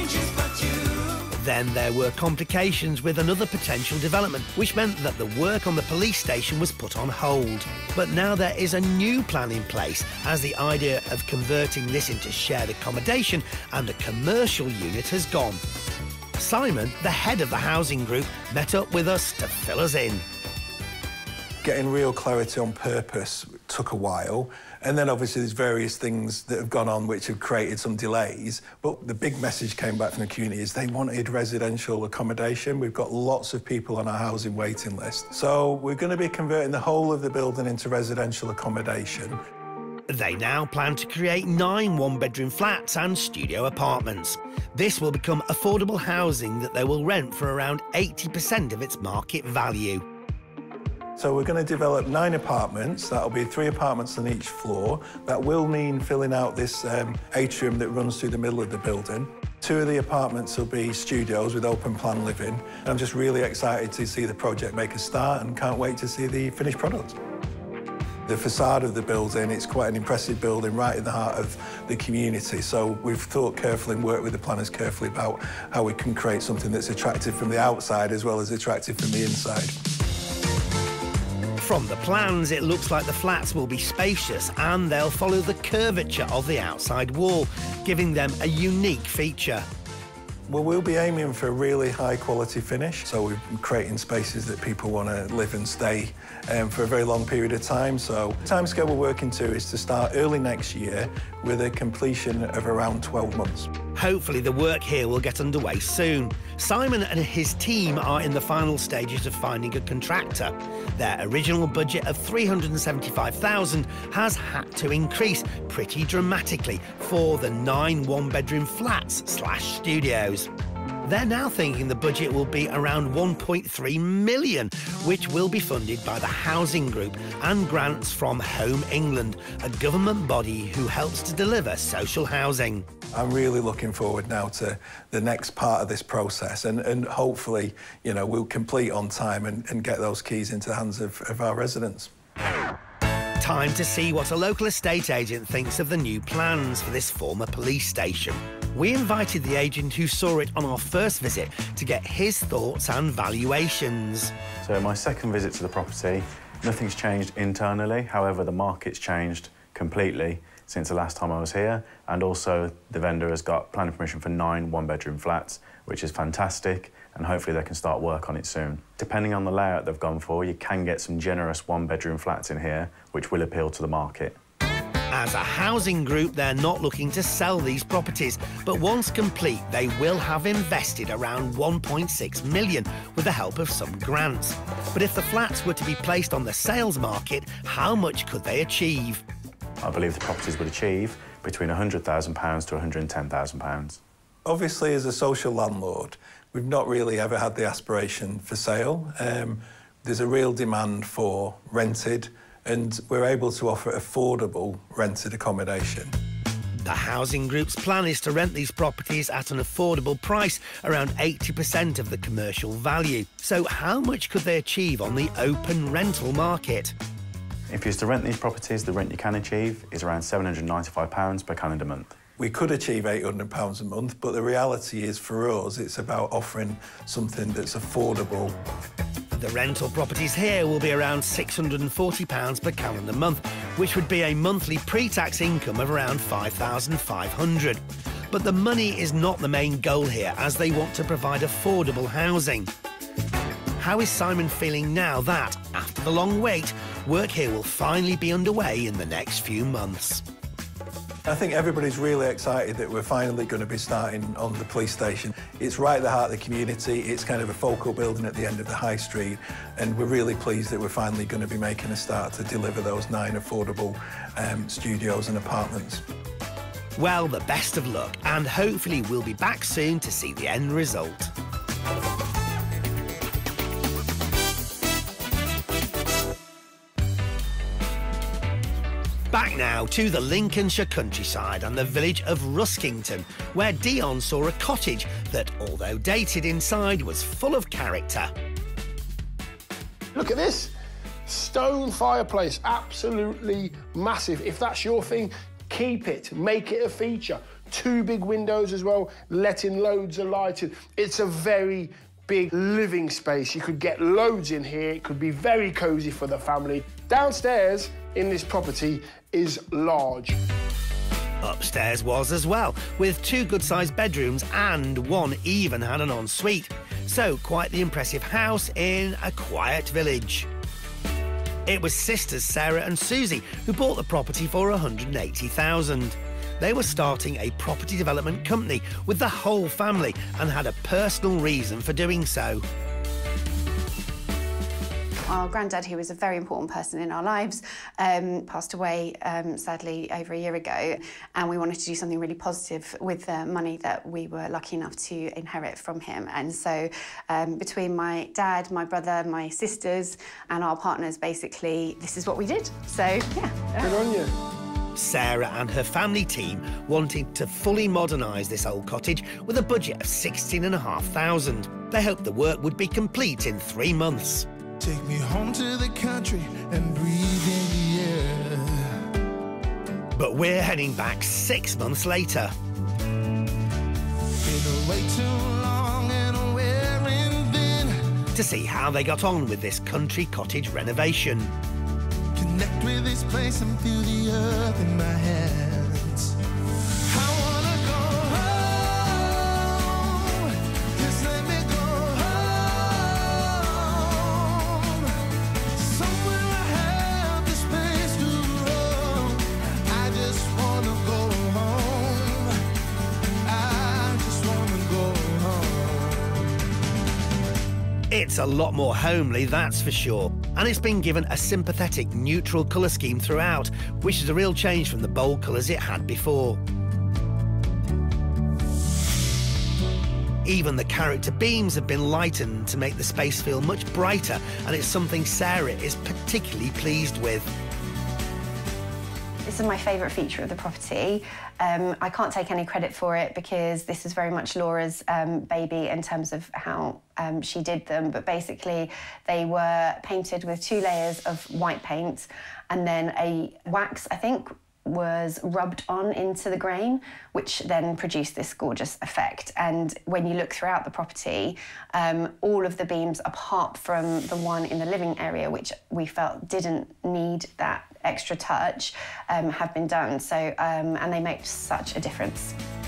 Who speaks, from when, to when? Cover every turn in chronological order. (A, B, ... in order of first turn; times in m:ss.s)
0:01.3-0:15.6 A
0:16.4-0:20.2 A
0:21.6-0:39.4 B
0:40.1-0:50.0 A
0:51.2-1:07.2 B
1:08.3-1:19.7 B
1:21.6-1:29.7 A
1:30.5-1:43.7 B
1:44.0-2:00.5 A
2:01.0-2:12.9 A
2:13.1-2:22.1 B
2:23.4-2:34.3 A
2:34.6-2:54.4 C
2:55.1-3:09.2 A
3:09.8-3:14.0 C
3:14.4-3:26.1 B
3:26.8-3:37.0 A
3:37.7-3:42.2 C
3:42.4-3:48.6 B
3:49.3-4:02.7 A
4:03.8-4:10.2 A
4:11.3-4:26.0 B
4:27.0-4:31.3 A
4:39.3-4:48.3 A
4:50.1-4:50.7 D
4:51.3-5:10.4 D
5:11.4-5:20.5 A
5:21.7-5:32.6 A
5:35.3-5:54.0 E
5:53.8-5:54.3 D
5:55.0-6:04.5 A
6:04.8-6:08.9 F
6:10.1-6:12.5 A
6:14.4-6:18.0 F
6:18.4-6:21.5 A
6:22.4-6:26.4 F
6:27.1-6:35.1 F
6:35.8-6:42.5 F
6:43.5-6:46.4 F
6:48.1-6:56.6 A
7:00.4-7:07.5 A
7:09.5-7:42.6 E